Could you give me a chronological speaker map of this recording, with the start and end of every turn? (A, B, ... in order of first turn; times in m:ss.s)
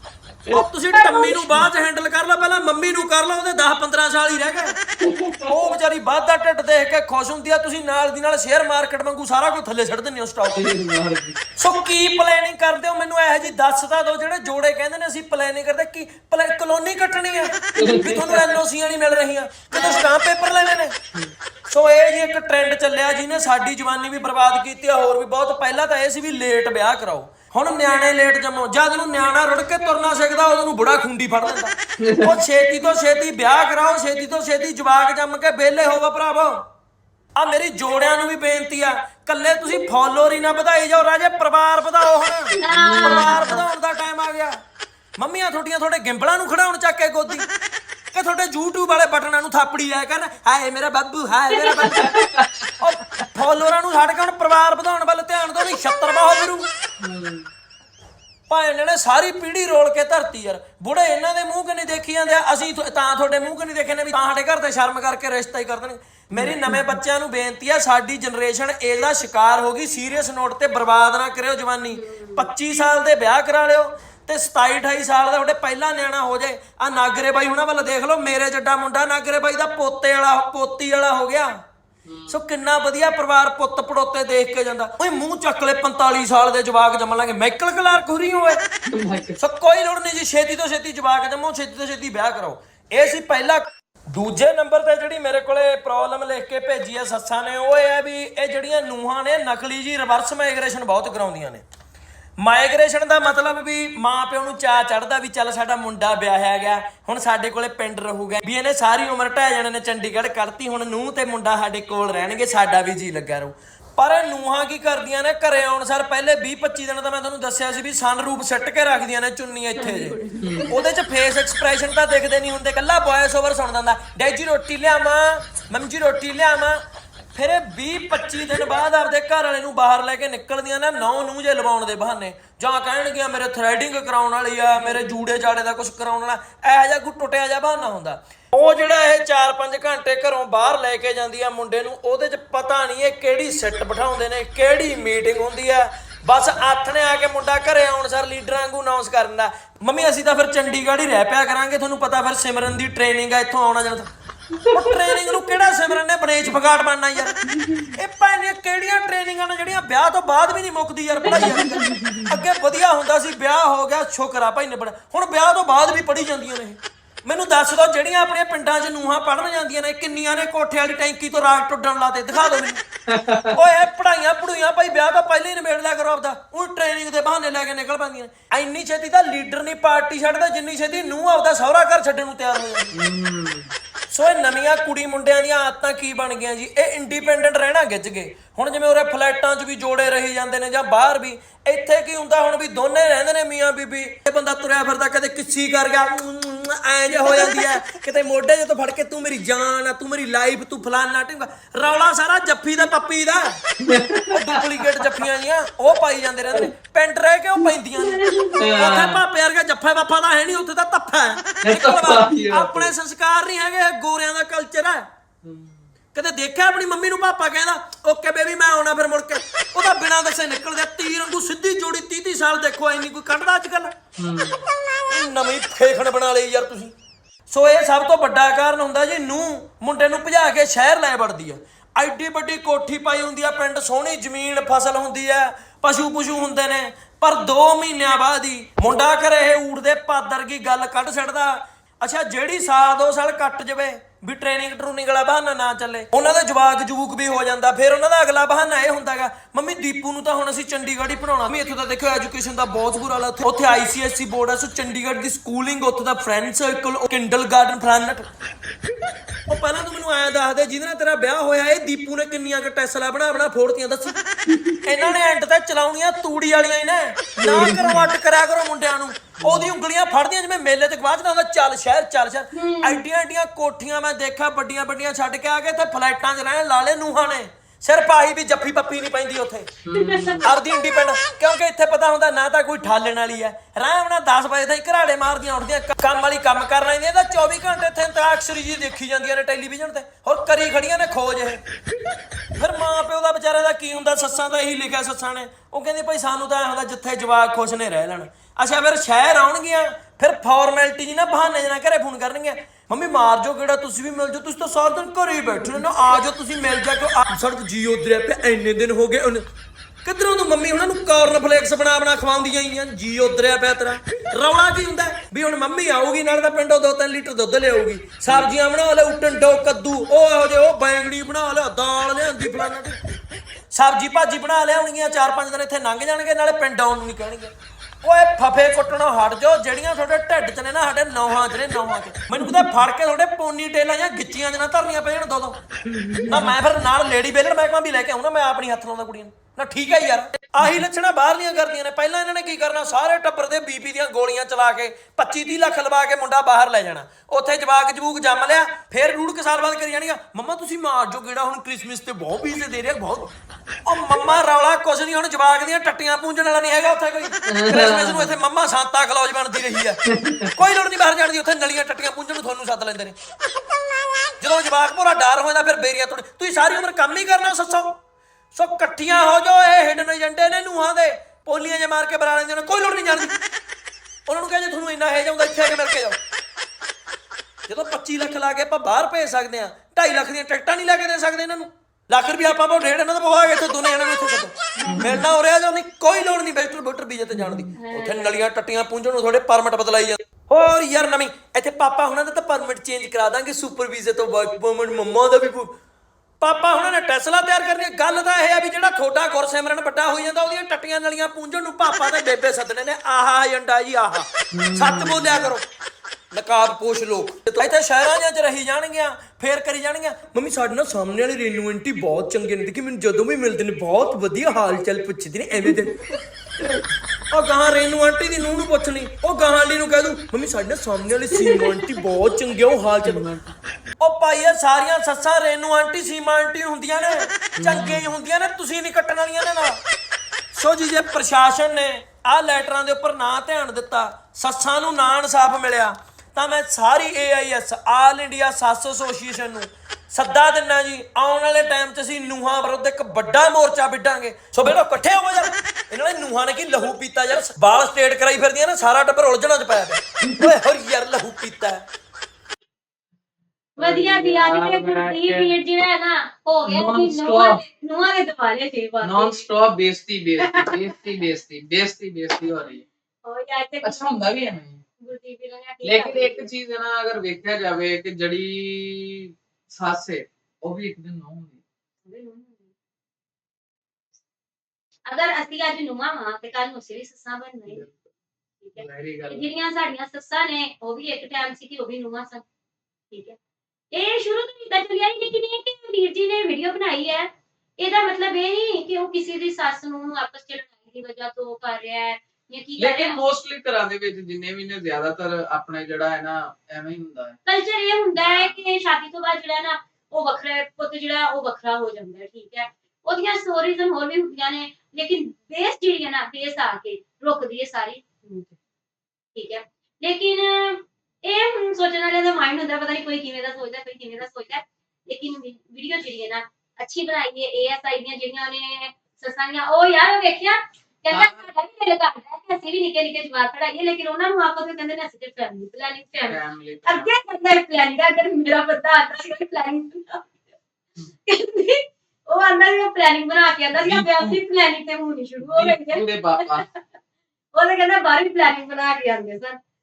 0:00.5-0:04.8 A
0:00.9-0:01.5 B
0:05.0-0:05.6 C
0:05.5-0:10.6 A
0:10.5-0:11.4 C
0:11.6-0:21.0 A
0:17.8-0:18.5 C
0:21.7-0:36.6 A
0:32.0-0:32.4 C
0:37.4-0:44.6 A
0:42.6-0:43.6 B
0:42.7-0:43.5 C
0:45.2-0:47.5 A
0:48.1-0:52.2 A
0:51.5-0:52.2 B
0:51.9-0:52.7 C
0:52.8-0:56.7 A
0:57.0-0:57.5 C
0:58.5-1:21.6 A
1:06.4-1:07.0 C
1:11.9-1:12.5 B
1:22.1-1:22.4 C
1:22.3-1:28.6 A
1:28.9-1:29.4 C
1:29.4-1:41.6 A
1:42.4-2:06.8 A
1:59.8-2:00.7 B
2:00.4-2:00.7 C
2:07.3-2:34.1 A
2:34.6-2:35.1 C
2:34.7-2:37.4 A
2:38.0-2:52.8 A
2:41.3-2:41.9 C
2:41.3-2:41.8 B
2:53.1-2:53.6 C
2:53.5-3:02.9 A
3:02.9-3:03.7 C
3:04.1-3:23.6 A
3:23.8-3:25.0 C
3:24.3-3:35.1 A
3:28.2-3:28.6 B
3:28.6-3:29.2 C
3:31.6-3:32.9 C
3:35.4-3:35.9 C
3:36.1-3:44.0 A
3:44.2-3:44.6 C
3:45.1-3:46.9 A
3:47.5-4:18.2 A
4:19.5-4:24.2 A
4:24.8-4:39.7 A
4:27.4-4:28.0 C
4:29.4-4:29.7 C
4:32.5-4:33.0 B
4:39.8-4:40.5 C
4:39.9-4:40.4 B
4:40.4-4:51.6 A
4:52.6-5:09.4 A
5:10.0-5:23.0 A
5:18.3-5:18.5 C
5:23.7-5:35.6 A
5:35.9-5:36.5 C
5:36.3-5:53.3 A
5:53.8-6:00.0 A
5:57.5-5:58.4 C
6:00.1-6:00.6 C
6:00.6-6:03.2 A
6:04.4-6:08.0 A
6:08.5-6:13.4 A
6:14.3-6:16.2 A
6:17.7-6:35.8 A
6:24.8-6:25.2 B
6:24.9-6:25.2 C
6:27.4-6:27.7 C
6:27.8-6:28.2 B
6:36.4-6:45.6 A
6:44.5-6:45.5 C
6:46.3-6:56.0 A
6:57.3-7:03.3 A
7:03.0-7:03.6 C
7:04.0-7:09.8 A
7:07.6-7:08.1 C
7:10.5-7:31.9 A
7:33.8-7:35.5 C
7:33.8-7:39.4 B
7:36.7-7:37.6 C
7:39.0-7:42.8 C
7:40.4-7:40.7 B
7:43.2-7:44.2 B
7:43.8-7:44.8 C
7:45.0-7:46.5 B
7:45.8-7:51.6 C
7:52.0-7:52.7 B
7:55.1-7:57.9 B
7:57.7-7:58.0 C
7:58.6-8:02.4 B
7:58.8-7:59.5 C
8:03.1-8:03.4 B
8:03.9-8:13.2 B
8:12.8-8:17.4 C
8:17.4-8:28.6 B
8:18.2-8:18.6 C
8:29.4-8:50.3 B
8:41.1-8:41.5 C
8:46.3-8:47.1 C
8:51.3-8:56.8 B
8:53.8-8:54.4 C
8:55.4-8:56.7 C
8:57.5-8:59.6 B